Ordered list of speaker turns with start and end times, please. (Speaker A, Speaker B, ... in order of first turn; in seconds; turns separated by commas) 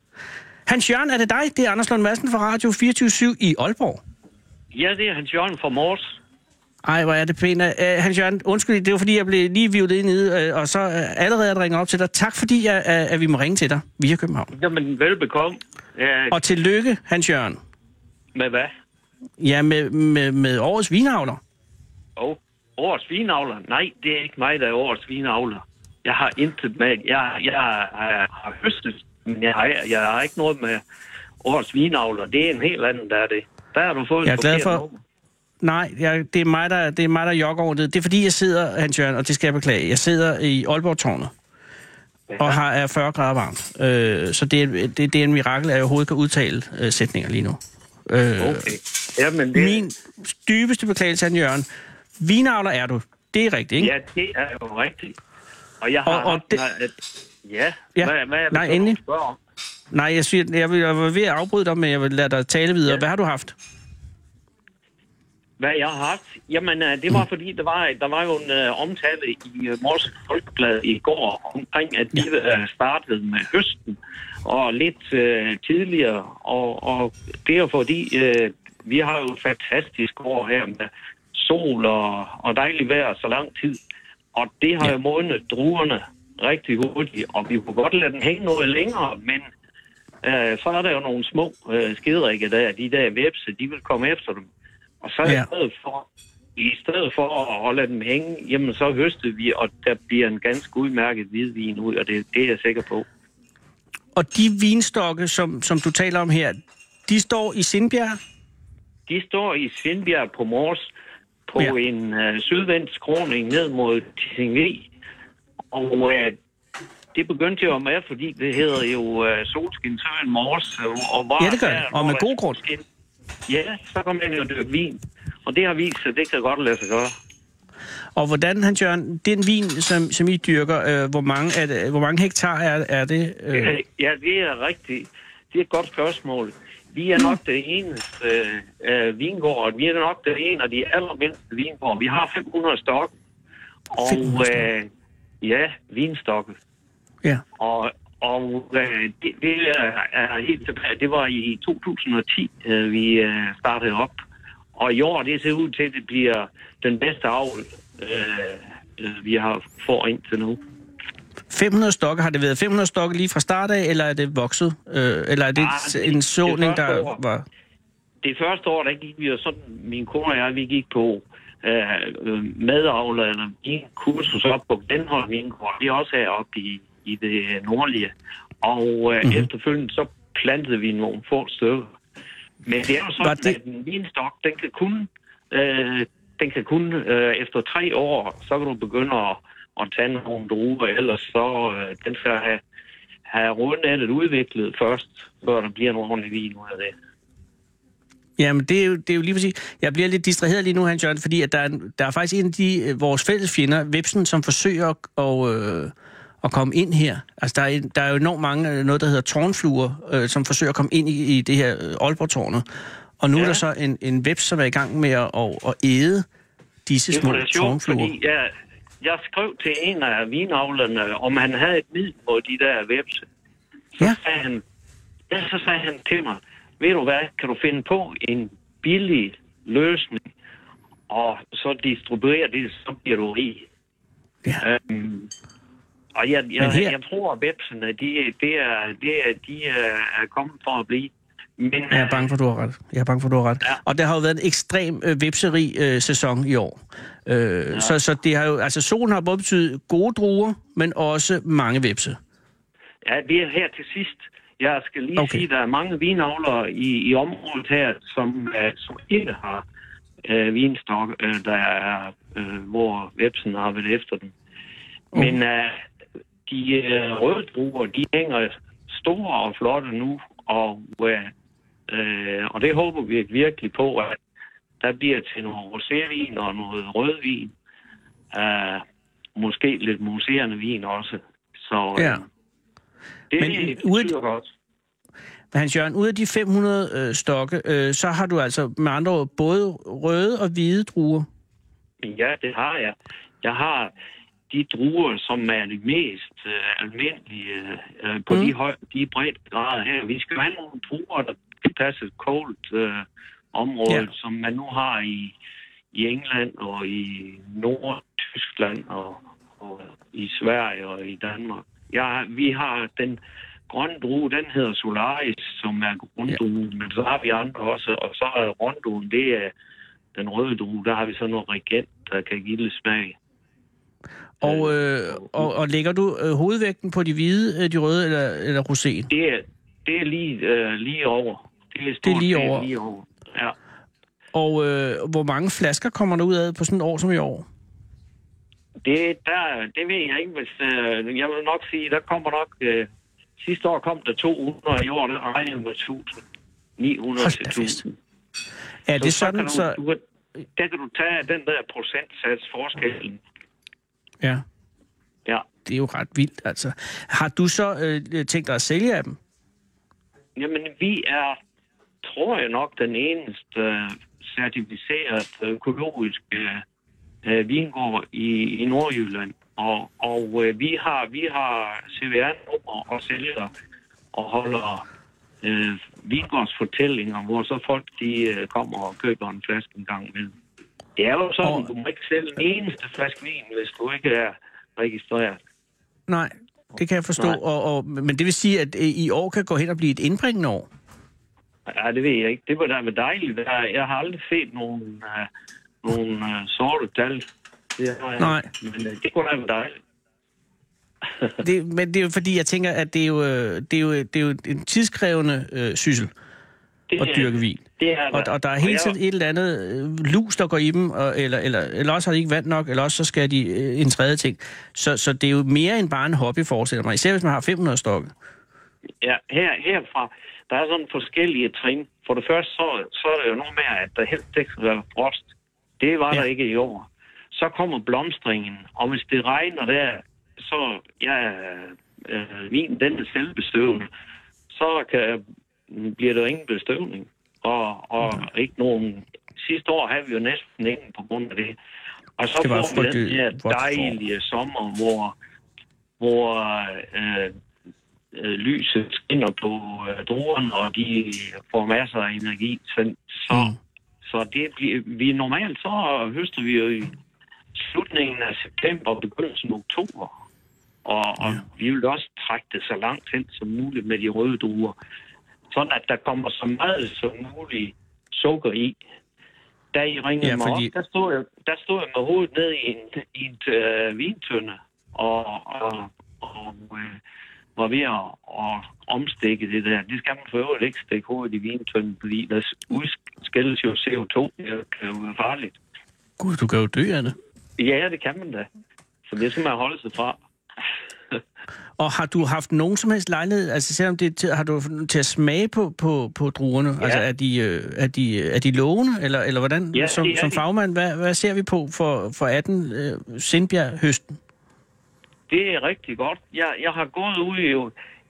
Speaker A: 0.7-4.0, Speaker B: 4.7-6.2, Speaker A: 6.8-14.5, Speaker B: 14.5-16.4, Speaker A: 16.3-17.6, Speaker B: 18.4-18.7, Speaker A: 19.4-21.4, Speaker B: 22.2-30.8, Speaker B: 31.4-35.0, Speaker A: 34.2-34.8, Speaker A: 35.6-41.3, Speaker B: 42.3-42.6, Speaker A: 42.4-48.7, Speaker B: 48.4-49.8, Speaker A: 49.5-51.7, Speaker A: 52.2-53.9, Speaker B: 53.8-55.2, Speaker B: 55.8-59.4, Speaker A: 56.1-56.6, Speaker A: 58.0-59.0, Speaker A: 59.9-63.5, Speaker B: 65.6-83.8, Speaker B: 84.3-89.5, Speaker B: 90.2-94.5, Speaker B: 95.0-96.0, Speaker B: 96.6-103.1, Speaker A: 104.2-108.2, Speaker B: 109.1-110.9, Speaker B: 111.5-114.9, Speaker B: 115.7-116.4, Speaker B: 117.1-122.8, Speaker A: 121.4-122.6, Speaker B: 123.5-127.2, Speaker A: 128.2-133.8, Speaker B: 133.5-143.1, Speaker B: 143.9-144.9, Speaker A: 144.0-144.7, Speaker B: 145.4-146.5, Speaker B: 147.6-154.1, Speaker B: 154.8-160.6, Speaker A: 161.5-167.4, Speaker B: 165.6-167.2, Speaker B: 168.2-181.9, Speaker B: 182.7-192.6, Speaker A: 183.2-183.6, Speaker B: 193.3-196.9, Speaker A: 198.4-212.7, Speaker A: 213.2-216.2, Speaker B: 213.4-213.6, Speaker A: 216.9-218.1, Speaker B: 217.1-223.2, Speaker B: 224.0-224.6, Speaker B: 225.3-230.3, Speaker B: 231.1-233.7, Speaker B: 234.6-235.3, Speaker B: 236.2-242.3, Speaker A: 236.6-236.9, Speaker A: 241.9-252.2, Speaker B: 253.0-259.6, Speaker A: 255.2-255.4, Speaker B: 260.2-264.3, Speaker B: 265.1-265.8, Speaker B: 266.5-271.3, Speaker B: 271.9-274.2, Speaker B: 274.8-277.5, Speaker B: 278.3-278.8, Speaker B: 279.4-282.3, Speaker A: 282.0-282.2, Speaker B: 283.3-284.5, Speaker A: 283.4-284.1, Speaker A: 285.5-291.3, Speaker B: 292.0-293.9, Speaker B: 294.5-305.3, Speaker B: 305.9-319.5, Speaker B: 320.2-323.2, Speaker A: 324.4-329.1, Speaker B: 324.4-325.5, Speaker B: 329.1-333.6, Speaker A: 332.0-332.7, Speaker A: 334.3-337.4, Speaker B: 338.8-342.9, Speaker B: 343.4-346.2, Speaker B: 346.8-347.9, Speaker A: 347.2-347.8, Speaker A: 348.9-349.8, Speaker B: 349.0-350.0, Speaker B: 350.6-353.2, Speaker A: 355.6-359.2, Speaker B: 360.4-361.4, Speaker B: 362.0-366.6, Speaker B: 367.2-373.5, Speaker B: 374.1-374.9, Speaker B: 375.4-380.3, Speaker B: 381.0-385.4, Speaker A: 381.4-381.7, Speaker A: 386.1-390.7, Speaker B: 391.7-395.3, Speaker B: 395.8-397.2, Speaker B: 397.8-399.8, Speaker A: 398.2-398.5, Speaker A: 401.4-406.1, Speaker B: 406.9-408.9, Speaker A: 407.0-418.1, Speaker B: 419.0-433.9, Speaker B: 434.5-441.6, Speaker B: 442.2-445.1, Speaker A: 442.4-443.9, Speaker B: 446.0-447.3, Speaker B: 448.1-453.5, Speaker A: 453.3-453.6, Speaker B: 454.0-456.9, Speaker B: 457.6-460.1, Speaker B: 460.9-464.8, Speaker B: 465.5-468.8, Speaker B: 469.7-477.0, Speaker A: 470.2-470.7, Speaker B: 477.6-485.6, Speaker A: 486.2-487.2, Speaker B: 487.6-488.5, Speaker B: 489.1-490.2, Speaker A: 491.8-504.2, Speaker B: 499.7-500.4, Speaker B: 505.3-507.7